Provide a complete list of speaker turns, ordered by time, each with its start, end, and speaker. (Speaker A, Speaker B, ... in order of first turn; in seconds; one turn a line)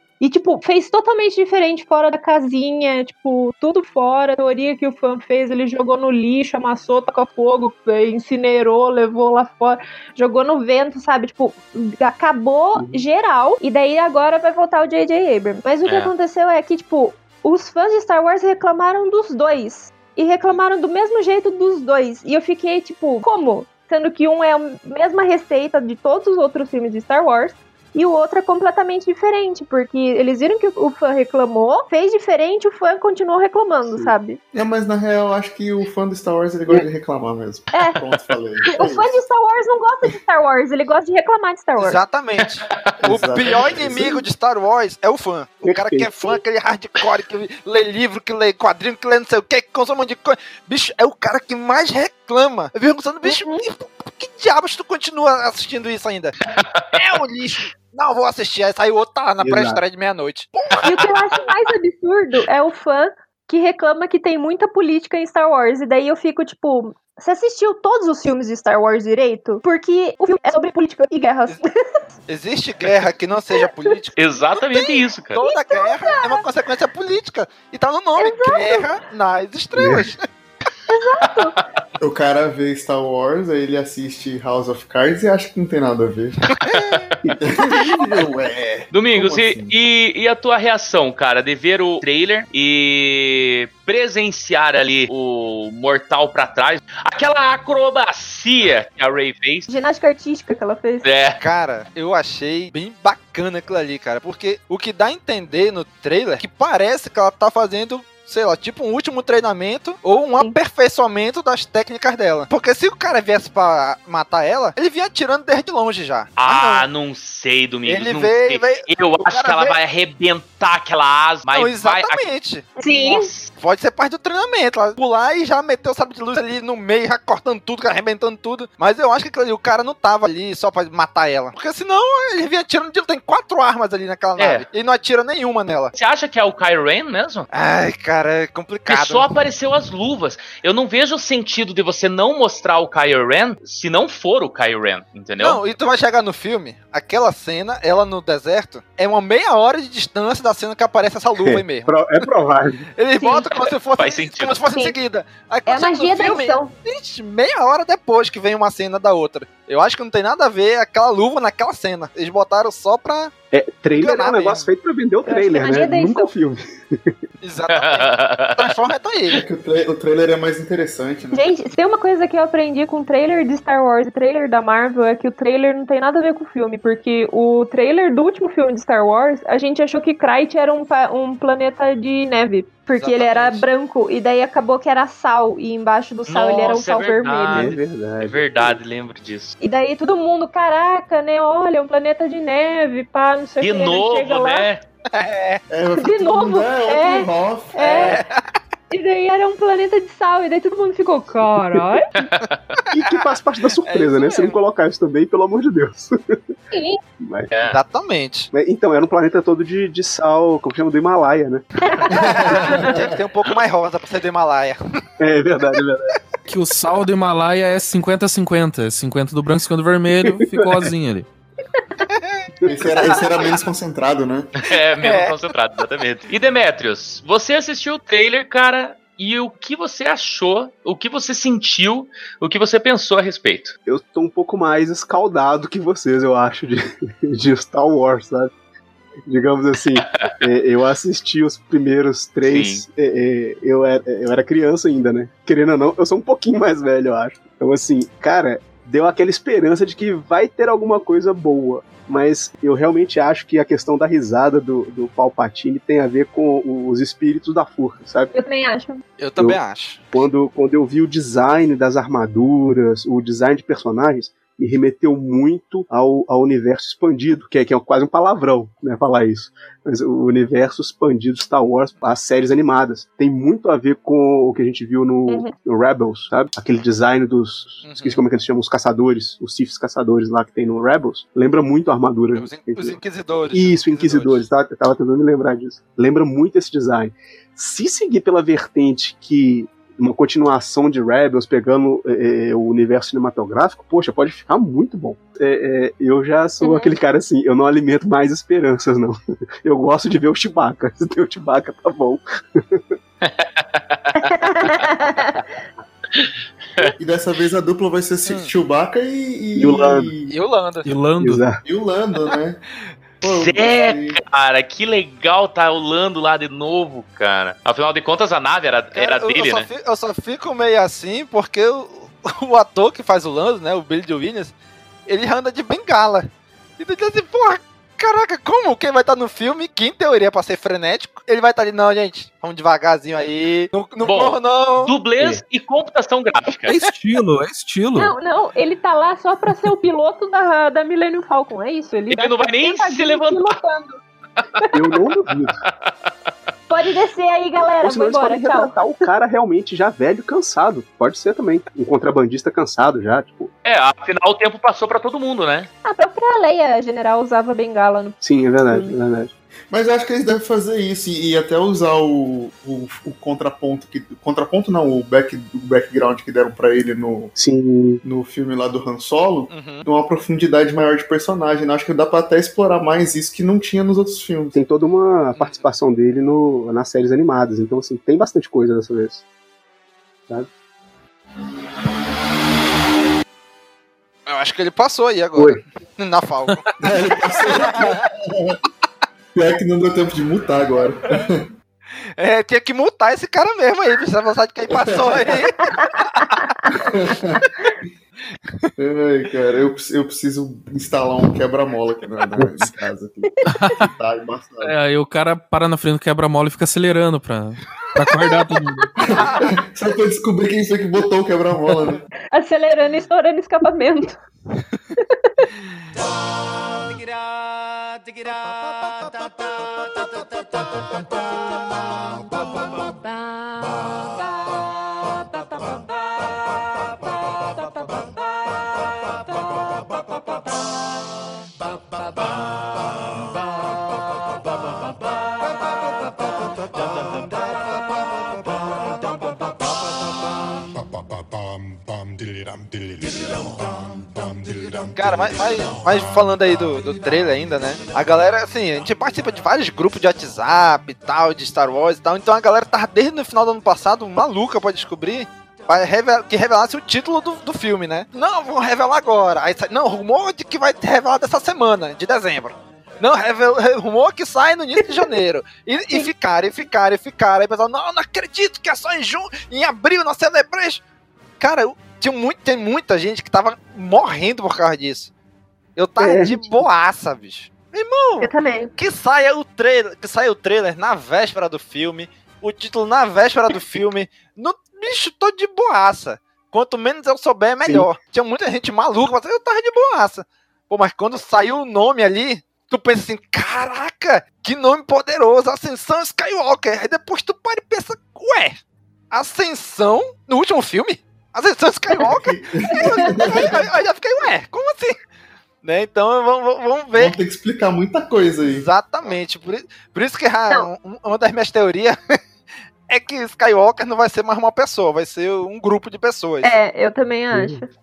Speaker A: 0.2-34.4
Speaker B: 12.8-13.0
Speaker C: 15.8-16.1
Speaker D: 34.5-39.2
Speaker A: 37.7-38.0
Speaker A: 38.8-42.0
Speaker E: 41.8-56.4
Speaker D: 43.0-44.2
Speaker B: 45.6-46.1
Speaker A: 53.2-53.6
Speaker C: 56.5-57.0
Speaker E: 56.9-60.5
Speaker B: 59.4-59.8
Speaker A: 60.7-72.0
Speaker E: 72.3-74.2
Speaker C: 74.2-75.4
Speaker A: 74.7-76.4
Speaker E: 75.3-80.2
Speaker A: 78.2-78.8
Speaker B: 79.8-80.1
Speaker A: 80.9-81.5
Speaker C: 81.3-81.6
Speaker D: 82.0-86.4
Speaker C: 86.6-87.1
Speaker E: 86.7-86.9
Speaker B: 87.2-87.5
Speaker D: 87.4-89.7
Speaker C: 88.9-99.7
Speaker A: 99.7-101.1
Speaker C: 101.0-101.4
Speaker E: 101.4-116.8
Speaker C: 116.4-122.2
Speaker E: 117.8-119.7
Speaker E: 121.5-122.7
Speaker A: 122.8-123.3
Speaker C: 123.0-123.5
Speaker E: 123.5-135.9
Speaker C: 134.4-134.7
Speaker C: 135.9-137.5
Speaker E: 137.5-139.2
Speaker C: 138.9-145.6
Speaker E: 145.4-151.9
Speaker B: 151.4-152.9
Speaker E: 152.9-163.3
Speaker A: 153.2-153.4
Speaker C: 154.0-154.7
Speaker A: 155.7-156.7
Speaker B: 163.5-167.2
Speaker E: 163.9-164.7
Speaker A: 165.3-166.3
Speaker E: 167.4-169.4
Speaker C: 167.7-168.7
Speaker D: 169.3-171.5
Speaker A: 171.3-187.7
Speaker E: 183.2-183.6
Speaker C: 186.3-189.6
Speaker B: 187.5-188.8
Speaker A: 189.6-194.7
Speaker C: 193.6-194.8
Speaker E: 195.1-195.6
Speaker D: 195.7-198.1
Speaker A: 196.0-198.2
Speaker E: 197.8-198.4
Speaker A: 198.9-202.1
Speaker C: 202.2-202.6
Speaker B: 202.9-206.4
Speaker E: 203.8-204.6
Speaker A: 206.7-207.0
Speaker B: 207.2-207.5
Speaker E: 207.7-208.5
Speaker B: 208.5-211.6
Speaker A: 211.9-212.9
Speaker D: 212.1-212.8
Speaker E: 212.2-214.8
Speaker B: 215.2-216.1
Speaker F: 216.5-221.2
Speaker B: 220.2-220.8
Speaker E: 222.1-222.4
Speaker B: 222.6-223.3
Speaker D: 222.7-224.5
Speaker C: 224.6-233.8
Speaker E: 225.0-225.3
Speaker B: 233.8-238.5
Speaker B: 239.2-258.3
Speaker C: 242.4-242.8
Speaker A: 258.3-259.0
Speaker E: 259.2-260.0
Speaker B: 260.1-283.0
Speaker A: 275.3-275.5
Speaker E: 277.8-278.2
Speaker E: 282.3-284.4
Speaker B: 283.5-302.9
Speaker A: 296.6-296.9
Speaker C: 303.2-304.8
Speaker A: 304.2-305.5
Speaker D: 307.0-310.3
Speaker E: 308.2-308.5
Speaker B: 309.6-310.1
Speaker E: 310.3-310.9
Speaker F: 310.8-311.4
Speaker B: 311.2-311.6
Speaker D: 311.6-312.6
Speaker C: 313.2-319.7
Speaker D: 313.2-314.2
Speaker E: 318.9-324.5
Speaker E: 325.1-326.3
Speaker E: 326.8-334.9
Speaker C: 334.0-336.8
Speaker F: 336.7-338.1
Speaker A: 337.9-344.0
Speaker C: 342.1-343.5
Speaker B: 344.7-345.6
Speaker C: 345.6-346.1
Speaker A: 346.7-348.7
Speaker B: 347.8-353.5
Speaker C: 353.6-355.7
Speaker A: 355.8-358.9
Speaker B: 358.2-359.3
Speaker D: 359.7-367.3
Speaker B: 367.4-368.0
Speaker D: 368.0-374.6
Speaker E: 369.5-369.9
Speaker B: 374.5-379.2
Speaker E: 375.4-375.6
Speaker E: 384.3-386.6
Speaker B: 385.4-385.6
Speaker D: 386.8-388.6
Speaker E: 387.4-387.9
Speaker D: 389.3-391.5
Speaker E: 392.2-396.1
Speaker D: 394.7-395.3
Speaker D: 396.7-397.4
Speaker D: 398.8-404.7
Speaker F: 403.5-403.9
Speaker F: 404.6-408.9
Speaker D: 409.1-412.0
Speaker A: 412.3-414.2
Speaker A: 415.0-415.4
Speaker E: 444.9-470.8
Speaker E: 471.4-475.1
Speaker E: 475.8-498.6
Speaker B: 476.0-476.6
Speaker A: 478.2-478.7
Speaker B: 487.6-487.9
Speaker E: 499.1-505.0
Speaker D: 502.0-503.7
Speaker A: 502.7-503.4
Speaker E: 505.6-507.1
Speaker D: 506.9-508.7
Speaker E: 508.6-512.0
Speaker E: 512.9-516.5
Speaker A: 516.4-517.6
Speaker B: 517.3-517.6